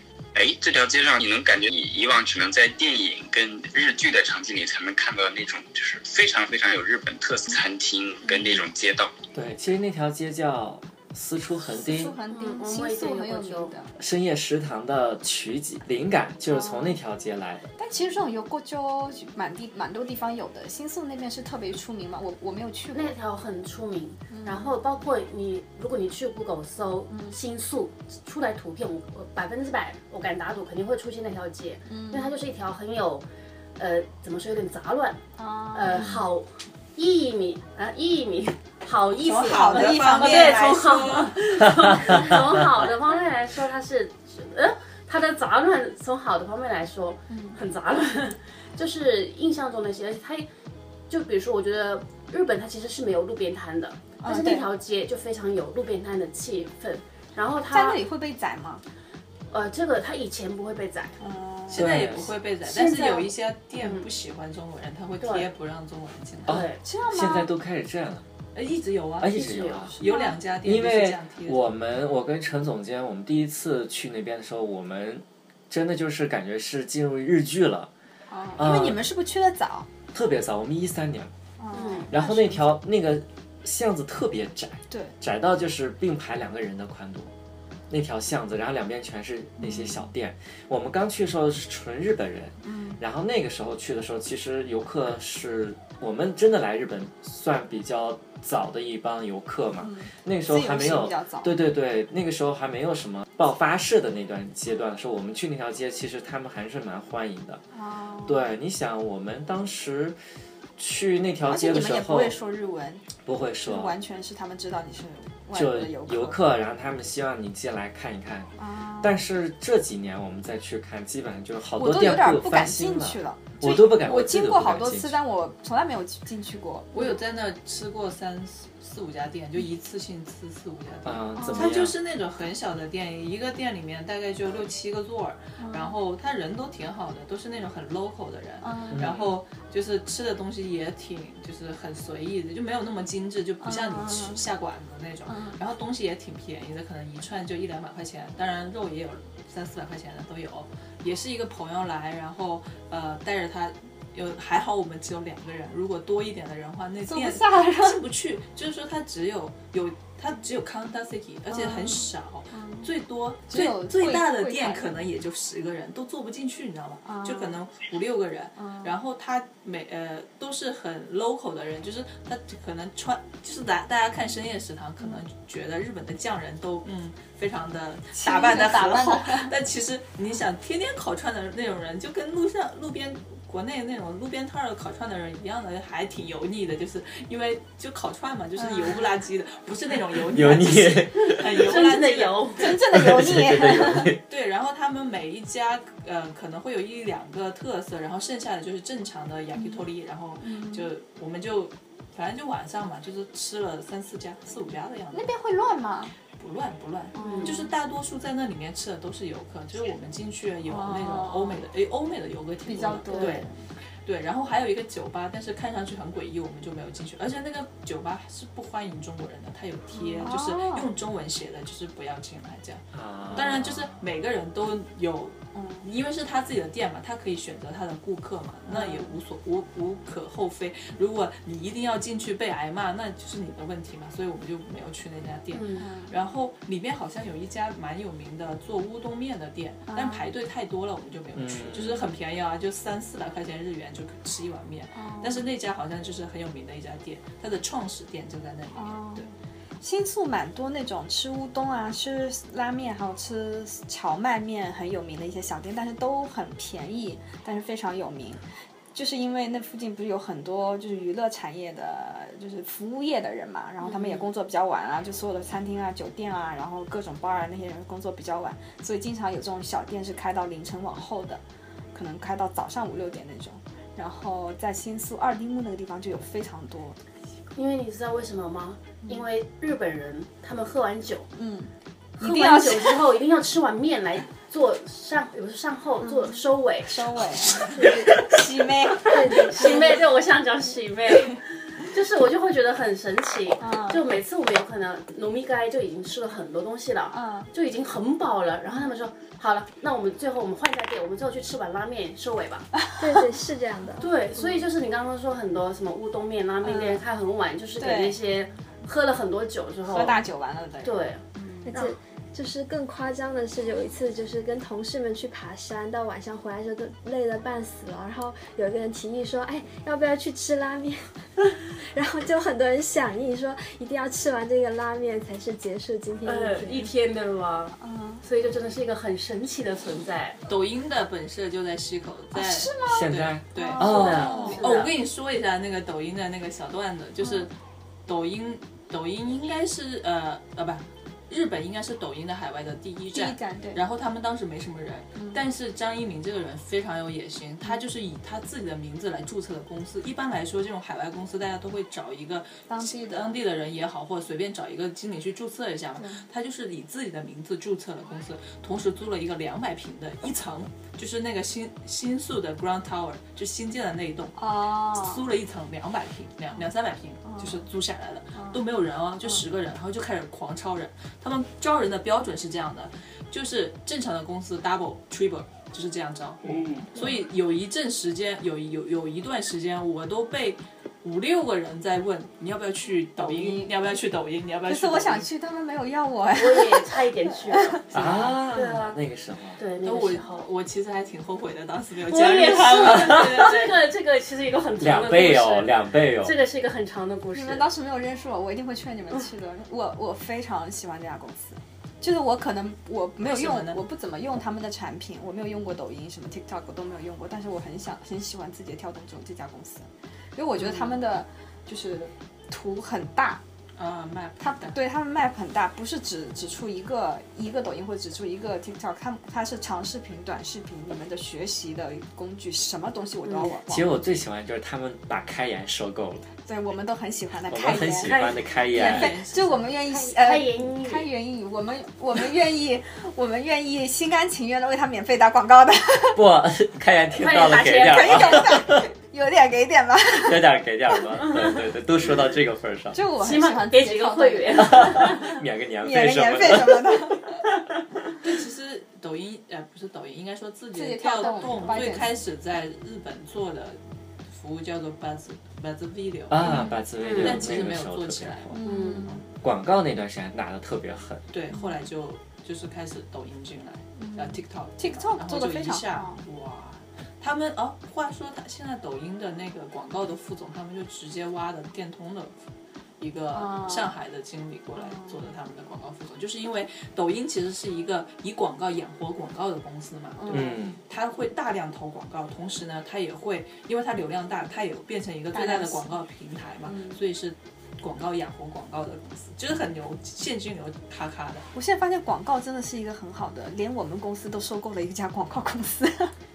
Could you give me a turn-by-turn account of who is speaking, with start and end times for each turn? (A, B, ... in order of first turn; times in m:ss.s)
0:00.3-0:09.1 A
0:09.3-0:12.2 B
0:11.7-0:13.9 C
0:12.3-0:13.7 D
0:14.0-0:17.7 B
0:16.5-0:17.0 C
0:17.8-0:23.1 C
0:22.9-0:33.2 D
0:24.3-0:24.8 C
0:27.1-0:27.4 C
0:31.9-0:32.3 C
0:33.8-0:35.2 D
0:35.4-0:36.2 C
0:35.7-0:50.5 D
0:39.2-0:41.4 E
0:39.3-0:41.3 C
0:41.6-0:42.4 B
0:47.3-0:47.6 C
0:51.1-0:58.0 D
0:54.2-0:54.7 C
0:57.7-0:58.8 C
0:59.5-1:01.2 D
1:01.2-1:01.8 C
1:01.7-1:06.6 E
1:01.7-1:02.3 B
1:02.6-1:04.1 D
1:05.2-1:05.5 D
1:06.4-1:08.3 B
1:06.5-1:06.8 D
1:06.8-1:07.5 C
1:08.5-1:09.4 E
1:09.2-1:10.0 B
1:09.3-1:10.0 D
1:10.0-1:11.6 E
1:10.0-1:10.4 C
1:10.6-1:17.9 B
1:18.3-1:19.9 C
1:18.6-1:19.0 B
1:20.1-1:21.3 B
1:21.6-1:22.8 C
1:21.7-1:22.1 D
1:22.1-1:27.3 B
1:27.9-1:47.6 B
1:29.6-1:30.0 C
1:32.6-1:33.0 C
1:39.8-1:41.6 C
1:47.7-1:48.4 C
1:48.2-1:50.2 B
1:50.8-1:52.4 B
1:51.5-1:53.1 C
1:53.2-1:54.0 B
1:53.6-1:56.4 C
1:55.5-2:05.2 B
1:58.6-1:59.2 C
2:01.7-2:07.2 C
2:06.9-3:12.6 E
2:11.0-2:12.0 B
2:11.4-2:11.8 C
2:15.6-2:16.0 C
2:18.6-2:19.2 C
2:18.9-2:19.3 B
2:23.6-2:24.4 C
2:25.3-2:25.6 C
2:37.1-2:38.0 C
2:41.5-2:42.9 C
2:43.5-2:45.0 C
2:47.0-2:47.6 C
2:48.6-2:48.9 C
2:58.1-2:59.5 C
3:08.6-3:09.1 C
3:10.3-3:11.6 B
3:11.2-3:12.7 D
3:12.6-3:14.1 C
3:12.7-3:14.2 B
3:14.3-3:25.3 E
3:19.5-3:19.8 C
3:20.4-3:20.9 C
3:25.1-3:26.1 C
3:26.4-3:33.5 E
3:27.1-3:27.7 C
3:27.2-3:27.6 D
3:30.6-3:31.6 C
3:32.6-3:33.6 C
3:33.1-3:33.4 D
3:34.0-4:09.3 E
3:39.9-3:40.9 C
3:42.9-3:44.0 B
3:45.5-3:45.9 C
3:48.7-3:49.2 C
3:55.5-3:55.9 D
3:55.8-3:56.2 C
3:59.9-4:00.3 C
4:01.3-4:02.1 B
4:04.9-4:05.4 C
4:08.7-4:31.4 C
4:23.8-4:24.2 D
4:31.9-4:37.0 C
4:37.5-4:41.3 D
4:41.3-4:43.0 C
4:42.2-4:47.0 D
4:46.0-4:50.0 C
4:49.0-4:50.0 F
4:49.4-5:02.7 D
4:53.6-4:54.0 C
4:57.1-4:57.5 C
5:03.0-5:04.6 F
5:04.0-5:10.2 D
5:06.6-5:07.0 C
5:07.8-5:08.2 C
5:09.9-5:11.8 C
5:10.8-5:11.9 D
5:11.6-5:26.9 F
5:26.2-5:30.4 D
5:27.8-5:28.2 C
5:30.5-5:37.5 E
5:32.3-5:34.7 C
5:32.8-5:34.7 B
5:33.8-5:34.9 D
5:37.2-5:37.5 C
5:38.0-6:25.3 E
5:43.1-5:43.8 C
5:45.1-5:45.4 C
5:52.7-5:53.4 C
5:56.0-5:56.2 C
6:04.4-6:05.3 C
6:07.2-6:07.6 C
6:08.3-6:08.6 C
6:16.9-6:17.3 C
6:23.2-6:23.7 C
6:24.7-6:28.2 C
6:26.4-6:29.0 D
6:27.9-6:29.6 B
6:29.6-6:30.5 D
6:29.8-6:33.8 E
6:32.1-6:37.7 D
6:32.8-6:33.3 B
6:34.8-6:36.3 B
6:37.3-6:53.4 C
6:43.2-6:43.8 E
6:50.6-6:51.0 E
6:53.8-6:54.8 E
6:54.4-7:04.0 C
7:03.7-7:06.3 B
7:06.4-7:16.2 C
7:07.5-7:09.2 B
7:08.1-7:08.4 D
7:08.2-7:09.9 E
7:09.9-7:11.1 D
7:16.1-7:18.9 B
7:17.1-7:18.5 D
7:17.7-7:20.4 C
7:20.2-7:23.0 B
7:22.9-7:25.2 C
7:23.2-7:25.2 D
7:24.5-7:27.2 B
7:25.8-7:27.4 C
7:28.2-7:39.2 E
7:30.7-7:32.2 C
7:36.3-7:38.6 B
7:36.4-7:36.8 C
7:37.0-7:37.4 D
7:38.5-7:39.2 C
7:38.6-7:39.1 D
7:39.4-7:41.2 B
7:41.3-7:52.3 E
7:41.5-7:41.8 C
7:44.0-7:46.2 C
7:53.0-8:11.5 E
7:53.3-7:53.9 C
7:54.8-7:55.3 C
8:00.2-8:00.6 C
8:00.3-8:00.8 B
8:05.3-8:05.8 C
8:06.6-8:07.0 C
8:11.5-8:16.1 C